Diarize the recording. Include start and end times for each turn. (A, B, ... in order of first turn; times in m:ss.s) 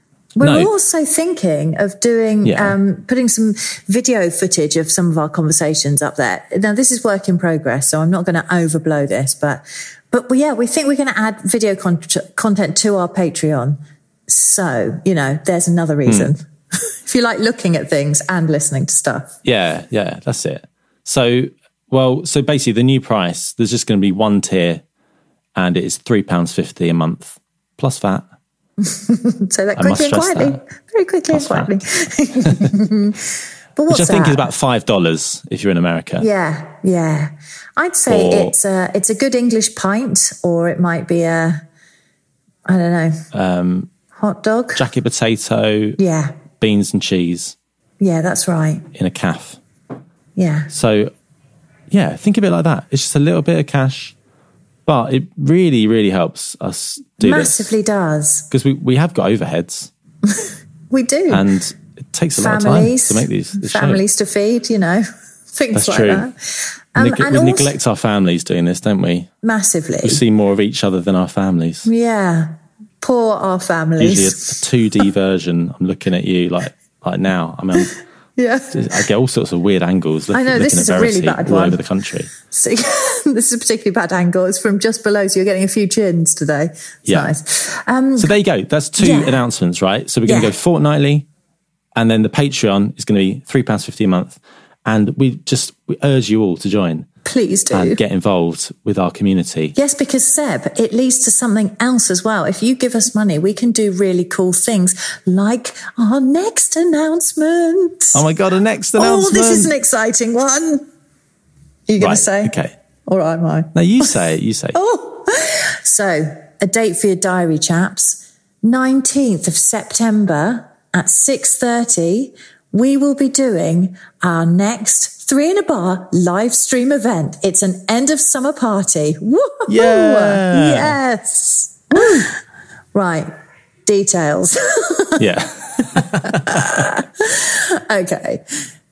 0:00.3-0:19.3 A
0:00.4-0:00.7 B
0:02.4-0:02.8 B
0:16.0-0:16.3 B
0:19.4-0:24.8 B
0:25.6-0:28.2 B
0:28.8-0:33.2 A
0:29.8-0:30.6 B
0:31.3-0:31.8 B
0:32.4-0:32.7 B
0:33.8-0:34.5 A
0:33.9-0:36.3 B
0:36.2-0:41.6 A
0:38.1-0:38.5 B
0:42.6-0:43.2 A
0:43.3-0:43.9 B
0:44.1-0:44.8 A
0:44.7-0:46.0 B
0:46.0-0:46.4 A
0:46.6-0:47.5 B
0:48.0-0:48.8 A
0:48.9-0:49.6 B
0:50.4-0:50.7 A
0:50.7-0:51.1 B
0:51.9-0:54.1 B
0:54.8-0:57.7 B
0:57.2-0:58.5 A
0:58.5-0:59.9 B
1:00.3-1:01.4 A
1:01.3-1:04.0 B
1:02.4-1:06.3 A
1:05.7-1:06.3 B
1:06.9-1:07.7 A
1:07.0-1:09.3 B
1:09.4-1:10.2 A
1:10.0-1:11.9 B
1:11.8-1:14.6 A
1:14.0-1:17.9 B
1:18.4-1:19.0 A
1:18.7-1:22.3 B
1:20.3-1:21.8 A
1:22.4-1:28.3 A
1:27.0-1:27.3 B
1:28.2-1:31.2 B
1:29.0-1:29.5 A
1:30.2-1:30.5 A
1:32.0-1:37.1 B
1:37.2-1:38.0 A
1:37.7-1:39.8 B
1:39.7-1:48.2 A
1:48.1-1:49.7 B
1:49.0-1:50.8 A
1:51.9-1:54.1 A
1:52.0-1:52.7 B
1:53.7-1:54.8 B
1:54.7-2:12.4 A
2:09.7-2:11.0 B
2:12.9-2:13.3 A
2:13.8-2:15.3 A
2:15.2-2:16.3 B
2:15.8-2:18.4 A